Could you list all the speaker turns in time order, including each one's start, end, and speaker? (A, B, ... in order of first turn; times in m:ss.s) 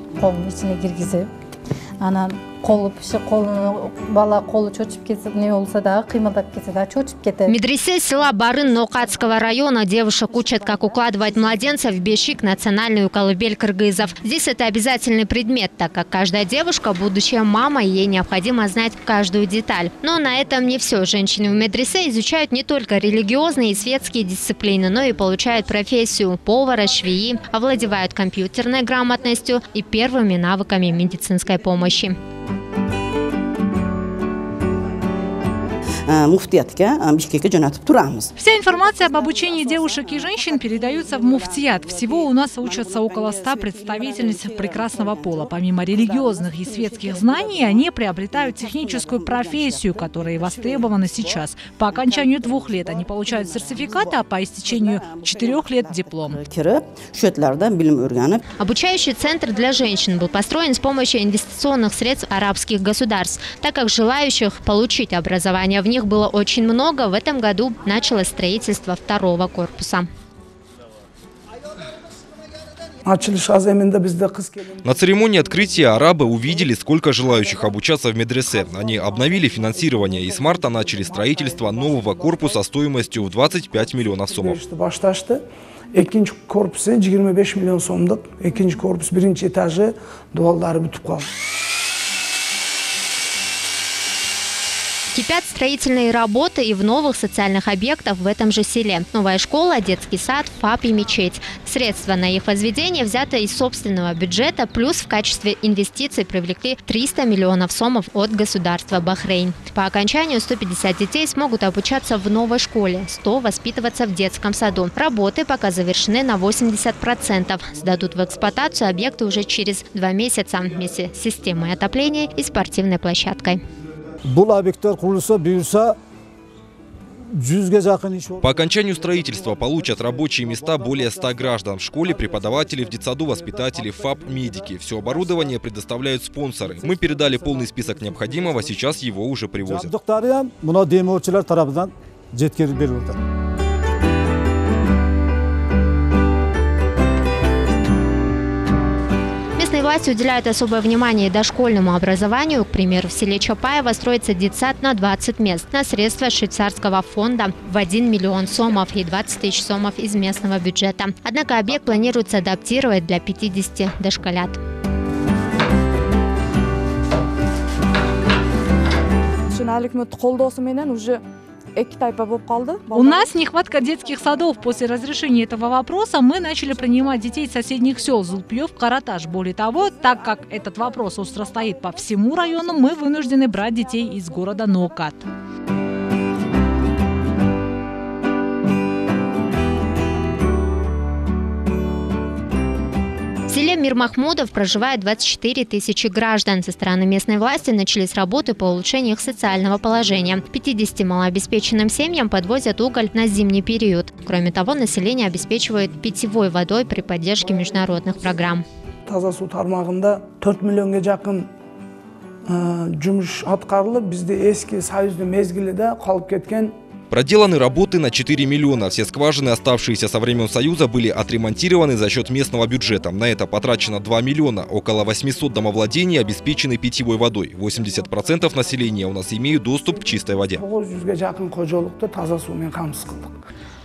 0:00.2-0:01.3 A
0:02.0-0:07.6 A
0:07.5-0:32.2 B
0:36.1-0:38.3 C
0:38.4-0:56.4 D
0:38.8-0:47.8 C
0:48.3-0:51.4 C
0:51.9-0:58.4 C
0:58.5-1:10.1 B
1:13.0-1:16.4 E
1:14.8-1:24.6 F
1:18.5-1:22.5 G
1:24.3-1:25.4 E
1:25.9-1:31.3 E
1:35.1-2:03.6 B
2:04.2-2:06.0 H
2:07.3-2:15.6 H
2:08.4-2:19.9 F
2:16.6-2:18.9 H
2:19.6-2:23.2 H
2:29.6-2:44.6 B
2:49.5-2:51.2 G
2:51.8-2:55.1 G
2:52.9-3:05.3 D
2:56.7-2:57.8 G
2:59.8-3:04.8 G
3:13.5-3:28.6 B
3:27.7-3:28.3 E
3:29.1-3:31.5 E
3:32.5-3:36.8 E
3:37.1-3:50.6 F
3:50.5-3:53.4 E